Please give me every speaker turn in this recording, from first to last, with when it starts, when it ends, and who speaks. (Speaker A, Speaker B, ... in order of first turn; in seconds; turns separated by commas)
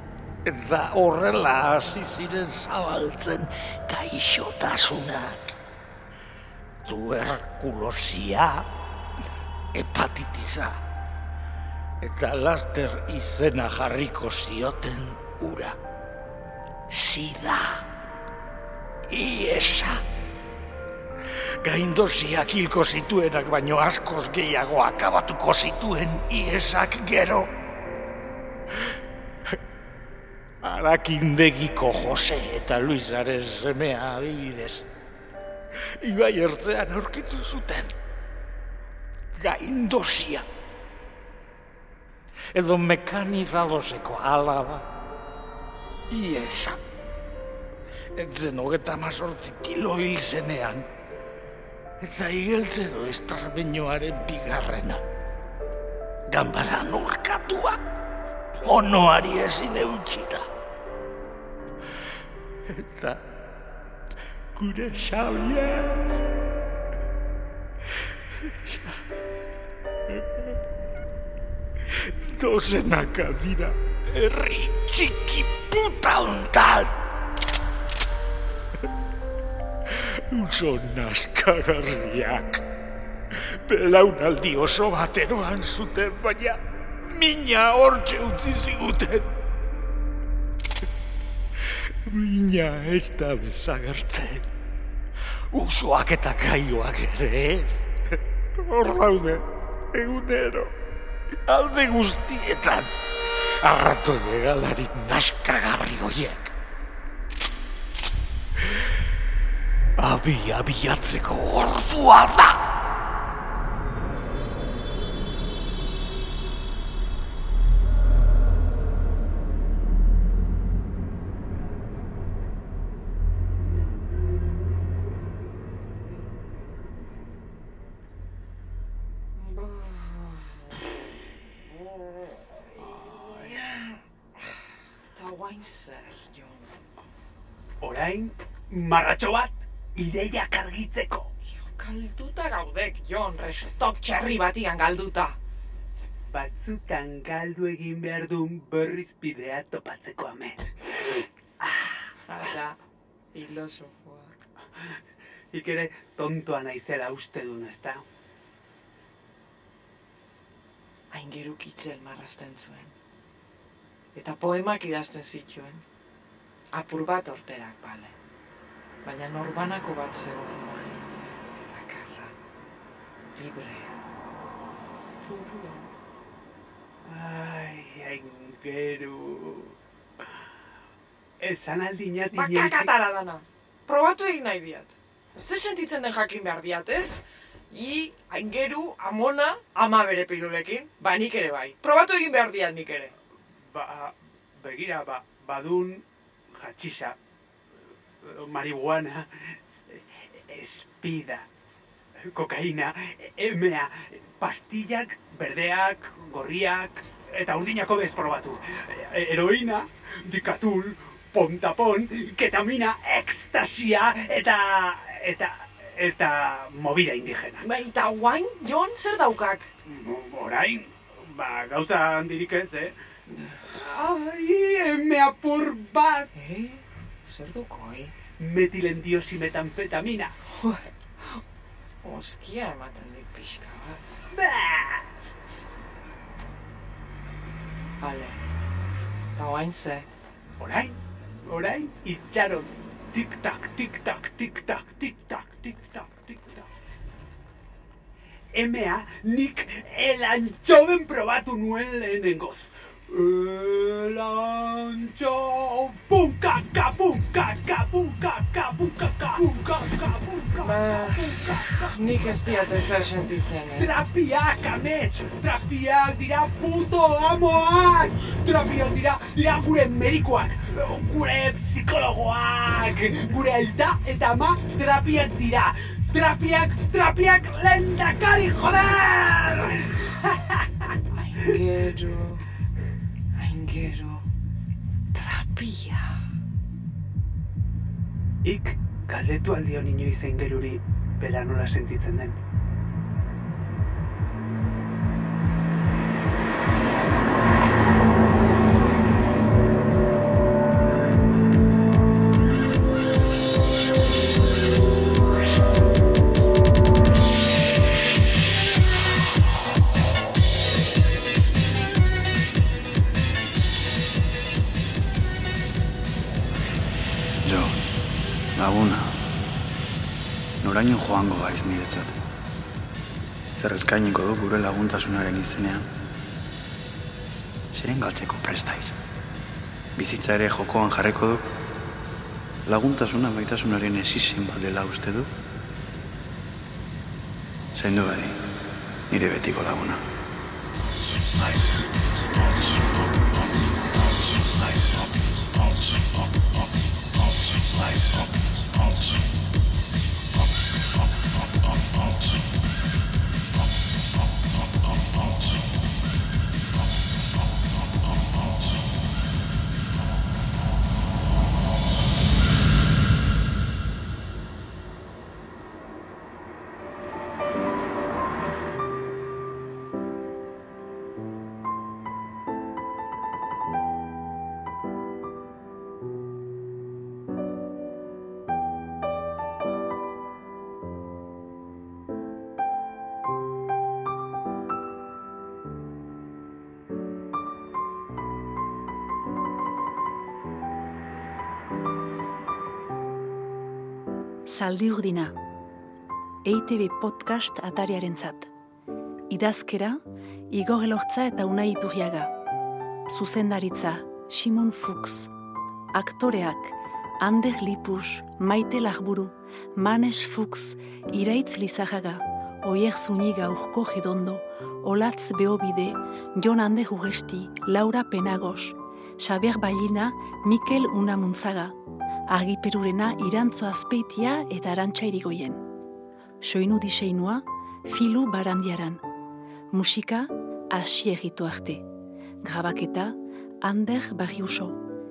Speaker A: 0.5-5.6, Speaker A: 6.8-8.7, Speaker A: 9.7-10.8, Speaker A: 12.0-15.8, Speaker A: 16.9-17.9, Speaker A: 19.1-20.0, Speaker A: 21.6-27.5, Speaker A: 30.6-34.9, Speaker A: 35.8-38.0, Speaker A: 39.4-40.5, Speaker A: 42.5-44.9, Speaker A: 46.1-46.8, Speaker A: 48.1-50.9, Speaker A: 52.0-55.0, Speaker A: 56.3-57.8, Speaker A: 58.6-60.5, Speaker A: 62.7-63.2, Speaker A: 64.5-66.2, Speaker A: 68.0-69.0, Speaker A: 70.1-70.6, Speaker A: 71.8-76.9, Speaker A: 79.8-82.6, Speaker A: 83.3-89.4, Speaker A: 91.6-94.5, Speaker A: 95.5-97.9, Speaker A: 98.6-100.7, Speaker A: 101.5-106.5, Speaker A: 108.6-108.9, Speaker A: 110.0-112.6, Speaker B: 129.4-130.9, Speaker B: 131.7-134.0, Speaker B: 135.1-136.7, Speaker C: 137.8-141.3, Speaker B: 141.5-145.4, Speaker C: 146.3-151.7, Speaker B: 152.3-152.8, Speaker B: 153.3-154.3, Speaker C: 154.8-155.0, Speaker C: 155.5-158.1, Speaker B: 161.1-162.9, Speaker B: 164.2-165.8, Speaker B: 166.7-168.2, Speaker B: 169.1-170.9, Speaker B: 171.7-172.3, Speaker B: 173.3-174.0, Speaker B: 175.2-175.9, Speaker C: 177.0-179.8, Speaker C: 181.4-182.9, Speaker B: 182.3-193.1, Speaker C: 193.5-197.2, Speaker C: 198.2-201.5, Speaker C: 202.2-217.6, Speaker B: 217.6-219.7, Speaker C: 219.9-223.0, Speaker C: 223.7-226.3, Speaker B: 226.3-228.1, Speaker C: 228.4-230.3, Speaker B: 230.6-230.9, Speaker B: 232.0-234.2, Speaker C: 234.3-235.2, Speaker B: 238.0-238.4, Speaker B: 239.3-240.1, Speaker C: 240.6-246.7, Speaker C: 248.5-262.7, Speaker B: 260.6-263.9, Speaker C: 263.8-280.9, Speaker B: 281.2-282.5, Speaker B: 283.4-284.3, Speaker B: 285.1-286.2, Speaker C: 288.4-292.4, Speaker D: 317.4-317.8, Speaker D: 318.6-319.1, Speaker D: 320.6-322.2, Speaker D: 323.5-325.9, Speaker D: 327.7-329.0, Speaker D: 330.0-331.5, Speaker D: 332.7-335.3, Speaker D: 337.8-338.4, Speaker D: 339.1-340.0, Speaker E: 394.5-395.4, Speaker E: 396.4-398.5, Speaker E: 399.3-400.0, Speaker E: 400.5-402.3, Speaker E: 403.1-405.3, Speaker E: 405.9-421.8, Speaker E: 422.3-425.6, Speaker E: 426.4-429.0, Speaker E: 429.7-431.9, Speaker E: 432.4-434.8